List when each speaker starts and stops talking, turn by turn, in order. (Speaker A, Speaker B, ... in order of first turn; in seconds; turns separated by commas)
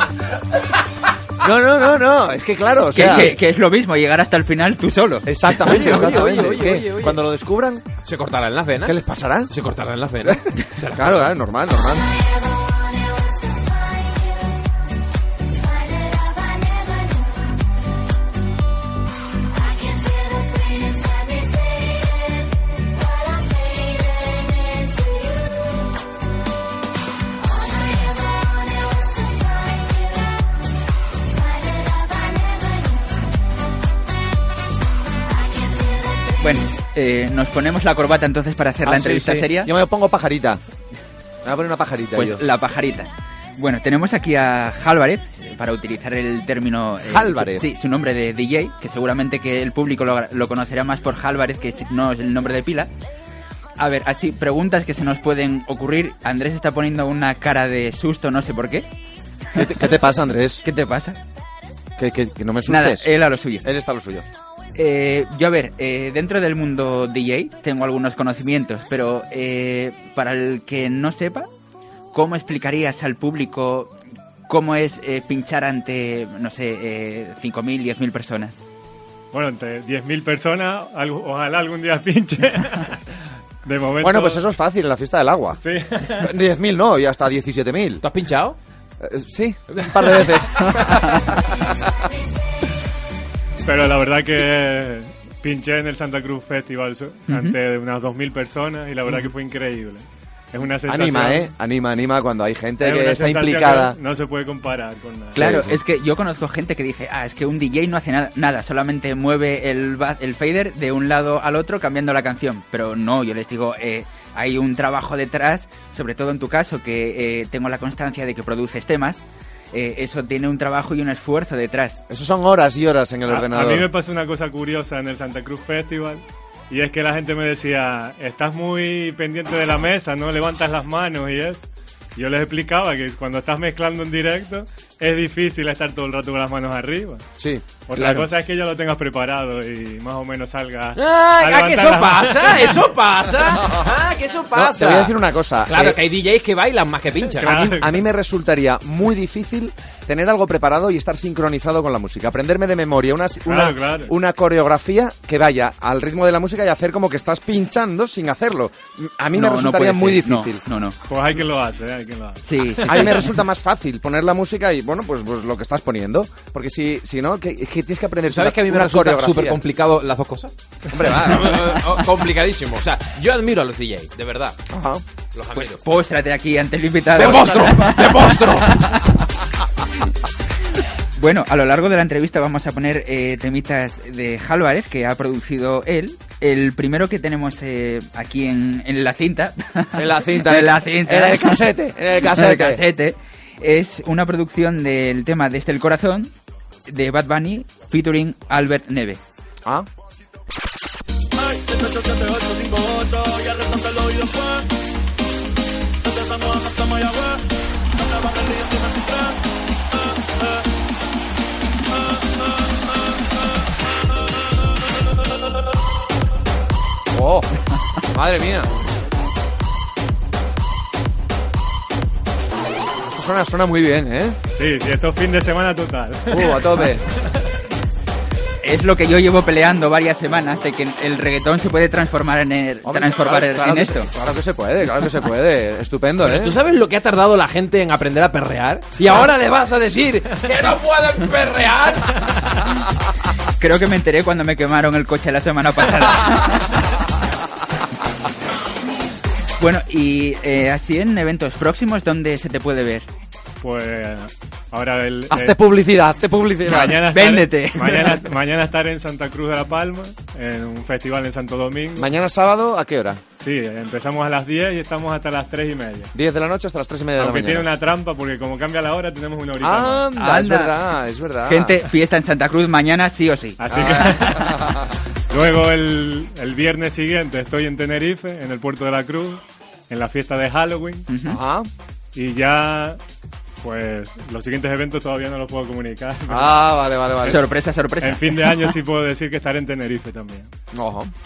Speaker A: 1.4-3.4, Speaker B: 2.9-5.3, Speaker A: 5.2-7.8, Speaker C: 5.6-7.2, Speaker C: 8.1-9.0, Speaker A: 8.8-9.5, Speaker C: 9.5-11.3, Speaker A: 10.2-12.1, Speaker B: 36.4-39.7, Speaker A: 38.9-40.6, Speaker A: 41.4-42.5, Speaker B: 42.1-52.9, Speaker A: 47.1-47.7, Speaker B: 53.8-58.9, Speaker A: 59.5-60.6, Speaker B: 60.6-61.2, Speaker A: 62.0-63.1, Speaker B: 62.7-63.6, Speaker A: 63.6-64.2, Speaker B: 64.8-71.5, Speaker B: 72.1-73.9, Speaker B: 74.5-78.5, Speaker D: 79.3-83.0, Speaker D: 83.6-84.4, Speaker A: 84.0-88.0, Speaker D: 85.6-86.3, Speaker C: 88.0-88.6, Speaker A: 89.0-91.9, Speaker C: 89.7-90.5, Speaker D: 93.7-101.5, Speaker B: 97.3-97.6, Speaker A: 100.9-104.0, Speaker D: 102.8-105.6, Speaker B: 105.3-119.2, Speaker C: 105.4-105.7, Speaker A: 105.4-105.7, Speaker B: 119.7-122.0, Speaker A: 122.1-123.9, Speaker D: 123.3-137.2, Speaker A: 137.4-137.6, Speaker D: 137.9-142.8, Speaker B: 138.0-138.2, Speaker C: 141.0-145.2, Speaker A: 144.6-146.0, Speaker C: 145.7-147.6, Speaker D: 147.4-148.0, Speaker A: 147.4-160.6, Speaker D: 153.5-154.1, Speaker B: 159.3-161.0, Speaker D: 161.1-163.1, Speaker B: 162.5-163.3, Speaker A: 162.8-169.6, Speaker C: 168.3-170.5, Speaker A: 170.9-171.7, Speaker C: 171.1-174.6, Speaker A: 174.7-175.0, Speaker C: 175.3-175.8, Speaker B: 175.6-179.3, Speaker C: 177.2-178.9, Speaker A: 177.2-177.8, Speaker B: 181.2-191.7, Speaker A: 189.9-192.8, Speaker B: 192.2-196.3, Speaker B: 196.9-199.2, Speaker A: 217.1-217.5, Speaker A: 218.1-218.7, Speaker A: 223.0-224.4, Speaker D: 224.6-226.9, Speaker A: 226.3-227.0, Speaker B: 228.6-234.1, Speaker A: 232.8-236.6, Speaker C: 236.2-242.5, Speaker B: 243.6-246.8, Speaker B: 249.6-253.1, Speaker D: 253.6-255.6, Speaker A: 255.3-257.1, Speaker D: 256.6-262.1, Speaker B: 257.1-258.3, Speaker A: 262.0-263.2, Speaker D: 263.4-266.1, Speaker A: 266.1-267.7, Speaker D: 267.2-270.1, Speaker A: 269.6-271.8, Speaker B: 270.2-270.8, Speaker B: 271.5-274.5, Speaker D: 273.6-274.8, Speaker A: 273.7-274.9, Speaker D: 275.3-281.1, Speaker B: 281.1-281.4, Speaker A: 281.3-281.7, Speaker D: 282.1-283.0, Speaker D: 283.6-286.6, Speaker A: 286.3-287.4, Speaker B: 287.2-288.7, Speaker D: 288.0-290.5, Speaker A: 290.7-291.1